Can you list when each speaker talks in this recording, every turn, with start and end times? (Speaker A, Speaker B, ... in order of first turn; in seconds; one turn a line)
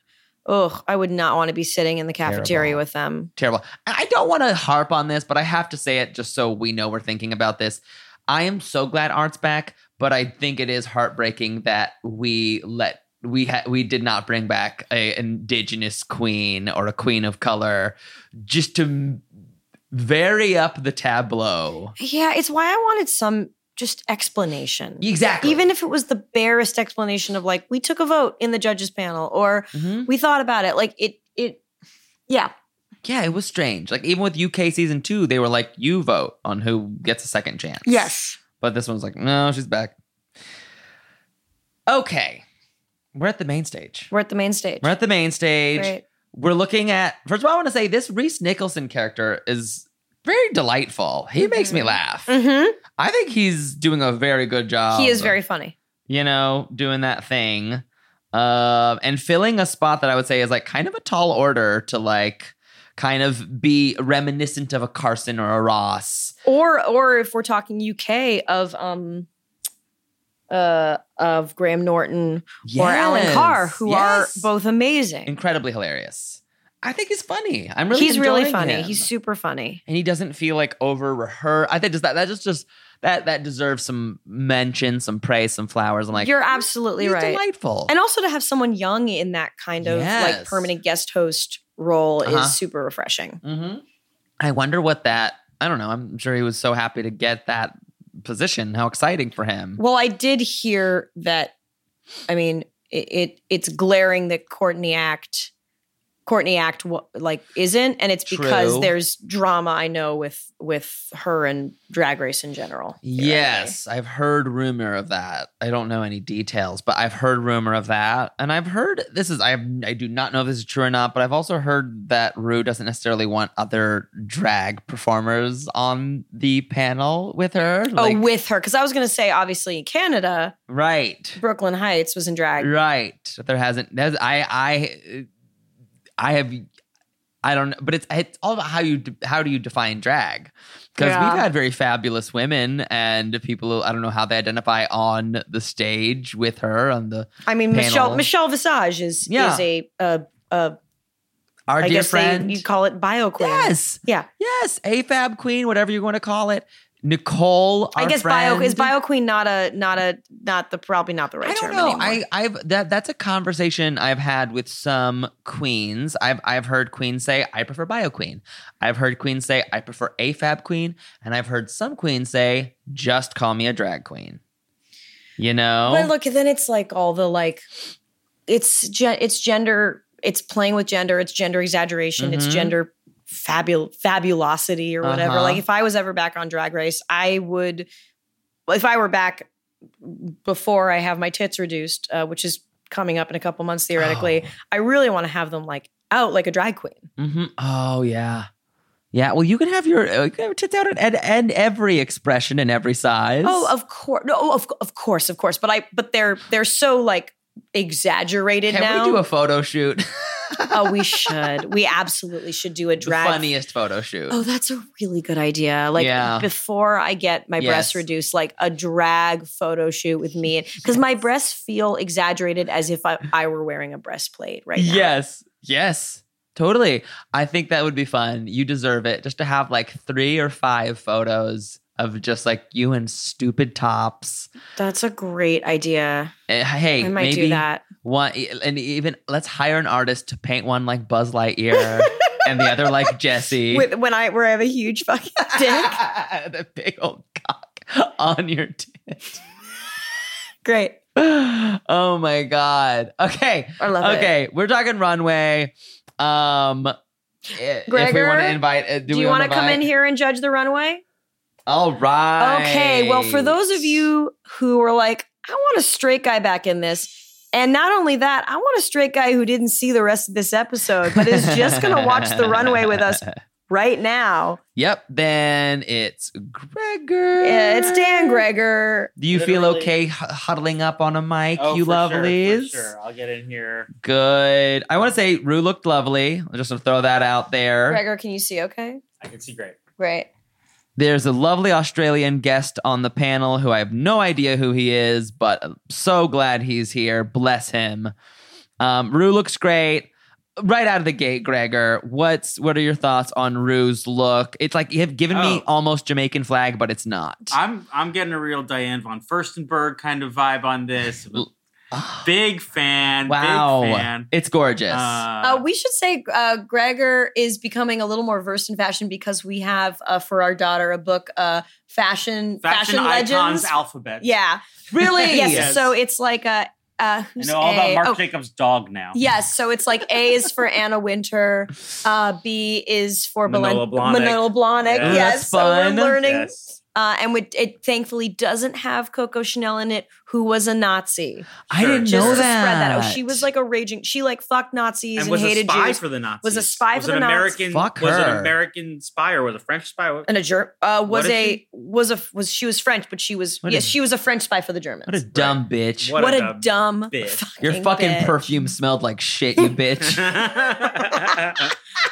Speaker A: 0.5-3.3
Speaker B: 2.2-2.8
Speaker B: 3.4-19.2
Speaker B: 19.9-21.9
Speaker A: 22.0-31.6
Speaker B: 25.0-25.6
Speaker B: 29.7-30.1
Speaker B: 33.0-38.0
Speaker A: 37.9-38.4
Speaker B: 38.6-40.0
Speaker B: 41.9-42.4
Speaker B: 43.1-44.1
Speaker A: 44.1-44.9
Speaker B: 44.8-52.3
Speaker A: 45.8-46.0
Speaker A: 51.4-52.8
Speaker B: 53.0-55.4
Speaker A: 54.9-55.8
Speaker B: 56.1-66.3
Speaker A: 66.5-69.3
Speaker A: 70.5-75.3
Speaker B: 72.6-74.5
Speaker B: 75.3-79.1
Speaker A: 77.9-79.8
Speaker B: 79.9-87.9
Speaker A: 86.2-93.4
Speaker B: 89.8-90.7
Speaker B: 92.2-92.6
Speaker B: 93.4-93.8
Speaker B: 94.4-99.8
Speaker A: 99.8-101.5
Speaker A: 102.3-105.5
Speaker A: 106.3-113.8
Speaker B: 108.3-108.9
Speaker B: 113.0-128.2
Speaker A: 128.0-130.6
Speaker B: 130.7-131.4
Speaker A: 131.4-132.7
Speaker B: 132.6-135.3
Speaker B: 136.2-136.7
Speaker B: 137.4-148.3
Speaker A: 141.0-141.5
Speaker A: 147.5-150.8
Speaker B: 149.3-149.6
Speaker B: 151.7-152.6
Speaker A: 151.8-154.3
Speaker B: 153.4-158.9
Speaker A: 158.0-162.2
Speaker B: 161.4-174.4
Speaker B: 175.4-176.1
Speaker A: 175.9-177.7
Speaker A: 178.5-187.9
Speaker B: 182.2-182.7
Speaker B: 185.0-185.6
Speaker A: 188.7-189.5
Speaker A: 190.0-197.1
Speaker B: 194.0-194.5
Speaker B: 197.2-198.5
Speaker B: 199.1-203.7
Speaker A: 203.4-209.2
Speaker B: 208.7-211.3
Speaker A: 210.7-213.5
Speaker B: 213.0-214.4
Speaker A: 214.3-225.1
Speaker B: 216.0-216.5
Speaker B: 217.6-218.0
Speaker B: 224.8-234.5
Speaker A: 234.8-236.3
Speaker B: 236.5-243.9
Speaker A: 237.0-237.8
Speaker A: 242.1-242.4
Speaker A: 243.7-246.0
Speaker B: 245.6-249.4
Speaker A: 250.7-251.0
Speaker B: 251.2-256.9
Speaker A: 253.8-254.3
Speaker B: 257.5-259.9
Speaker A: 257.9-261.0
Speaker B: 261.7-263.9
Speaker A: 262.4-274.6
Speaker B: 271.1-273.3
Speaker B: 274.8-278.4
Speaker A: 277.4-279.1
Speaker B: 279.2-282.9
Speaker C: 279.3-279.9
Speaker C: 281.6-283.9
Speaker B: 284.0-288.0
Speaker A: 287.9-289.0
Speaker C: 289.2-289.8
Speaker A: 290.0-290.3
Speaker B: 291.0-298.1
Speaker B: 298.8-307.6
Speaker C: 305.3-305.6
Speaker C: 307.5-311.5
Speaker B: 311.9-312.3
Speaker C: 312.2-314.3
Speaker B: 313.3-315.2
Speaker C: 314.9-315.6
Speaker A: 315.4-328.2
Speaker C: 322.6-324.3
Speaker B: 324.9-325.8
Speaker C: 325.3-325.9
Speaker C: 327.4-329.2
Speaker A: 329.1-341.5
Speaker C: 333.5-335.4
Speaker B: 335.0-336.2
Speaker C: 336.1-336.8
Speaker B: 341.7-343.5
Speaker C: 341.7-342.5
Speaker A: 342.0-347.6
Speaker C: 345.2-350.3
Speaker B: 347.7-348.5
Speaker A: 350.3-355.2
Speaker C: 351.1-351.6
Speaker B: 353.6-353.9
Speaker B: 355.1-356.2
Speaker C: 355.3-357.5
Speaker A: 356.1-358.7
Speaker B: 357.6-360.6
Speaker C: 360.0-361.7